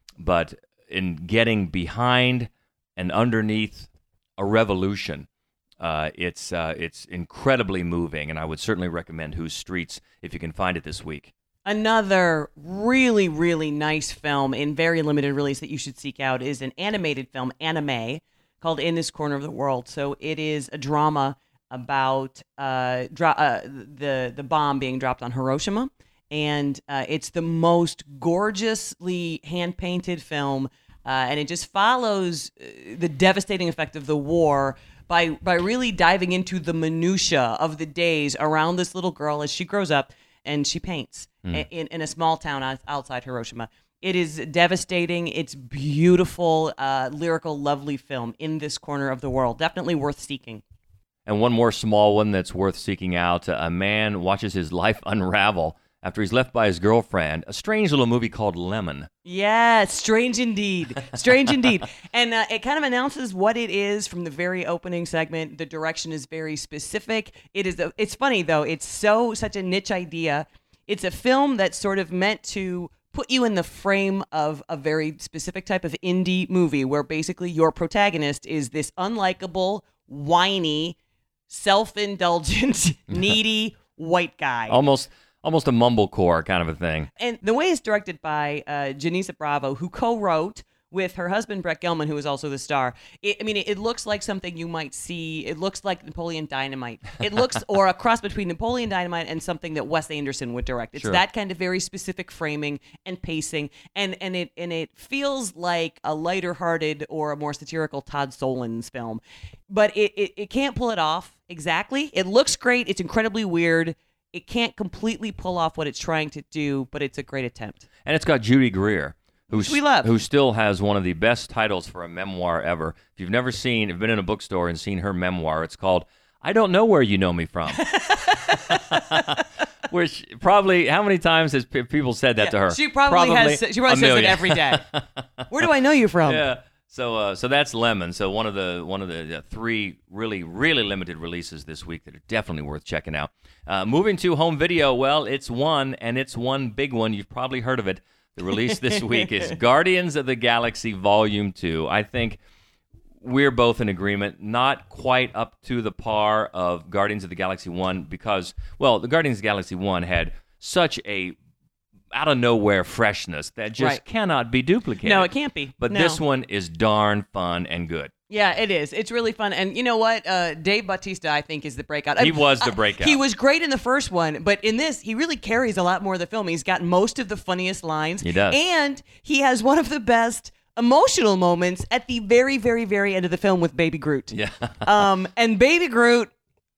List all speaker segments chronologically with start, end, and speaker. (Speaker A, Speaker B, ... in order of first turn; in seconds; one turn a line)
Speaker A: 0.2-5.3
Speaker A: 5.8-11.3
Speaker B: 11.7-50.6
Speaker A: 51.2-59.1
Speaker B: 59.2-81.0
Speaker B: 81.5-84.8
Speaker A: 84.7-87.1
Speaker B: 87.2-117.8
Speaker A: 118.0-135.7
Speaker B: 119.5-120.1
Speaker B: 127.7-129.4
Speaker B: 132.4-134.8
Speaker B: 135.5-136.4
Speaker A: 136.2-152.4
Speaker B: 148.9-149.4
Speaker A: 153.2-161.3
Speaker A: 162.1-168.1
Speaker B: 165.0-166.2
Speaker B: 168.3-186.3
Speaker A: 172.2-173.2
Speaker A: 178.2-178.6
Speaker A: 184.3-185.1